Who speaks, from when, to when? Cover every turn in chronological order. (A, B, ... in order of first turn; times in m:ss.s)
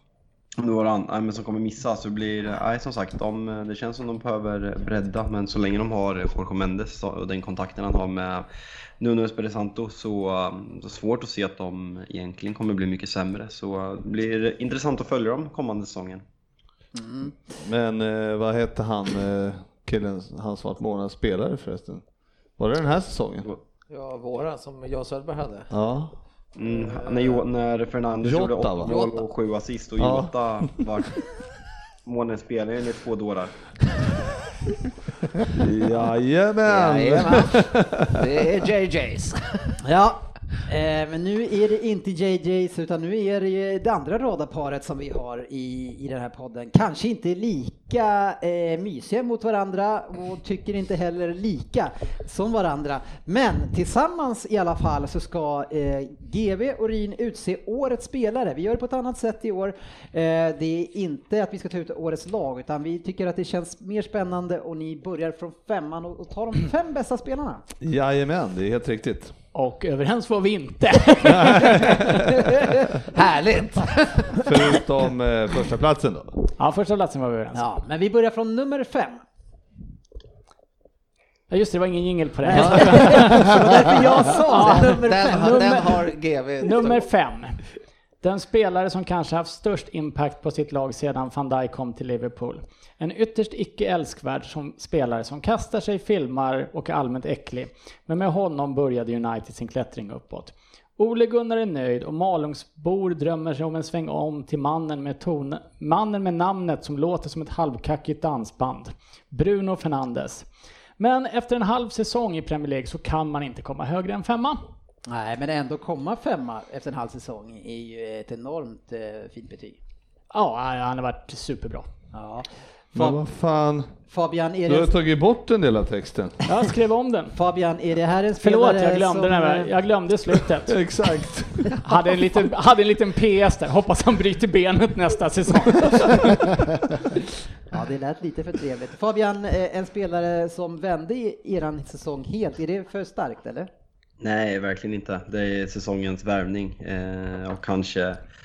0:00.6-0:08.4 A
0:09.0-0:16.2 A
0:16.9-0:17.3 B
0:17.6-0:22.0 C
0:22.6-0:23.5 C
0:23.9-0:25.7 D
0:25.7-0:26.2 C
0:26.6-0:31.2 A
0:26.7-0:27.4 D
0:28.2-0:28.9 C
0:28.8-0:29.2 D
0:30.0-0:30.3 C
0:32.0-0:33.5 A
0:35.5-0:38.1 C
0:36.6-0:39.7 D
0:39.8-1:07.6 B
1:07.8-1:09.3 C
1:09.5-1:12.0 E
1:11.2-1:12.2 C
1:13.1-1:14.7 D
1:14.4-1:16.4 C
1:16.6-1:17.6 E
1:17.5-1:19.2 B
1:21.5-1:25.6 E
1:22.4-1:26.0 B
1:24.6-1:27.0 D
1:26.6-1:27.6 E
1:28.2-1:50.4 E
1:51.0-1:54.6 E
1:55.0-1:59.8 B
2:00.3-2:01.9 E
2:02.1-2:03.2 B
2:02.9-2:03.9 C
2:04.1-2:04.9 B
2:04.7-2:06.4 C
2:06.4-2:07.3 E
2:07.3-2:09.7 B
2:08.4-2:10.7 E
2:10.7-2:11.9 C
2:11.8-2:16.7 E
2:17.7-2:23.7 B
2:24.2-2:28.2 A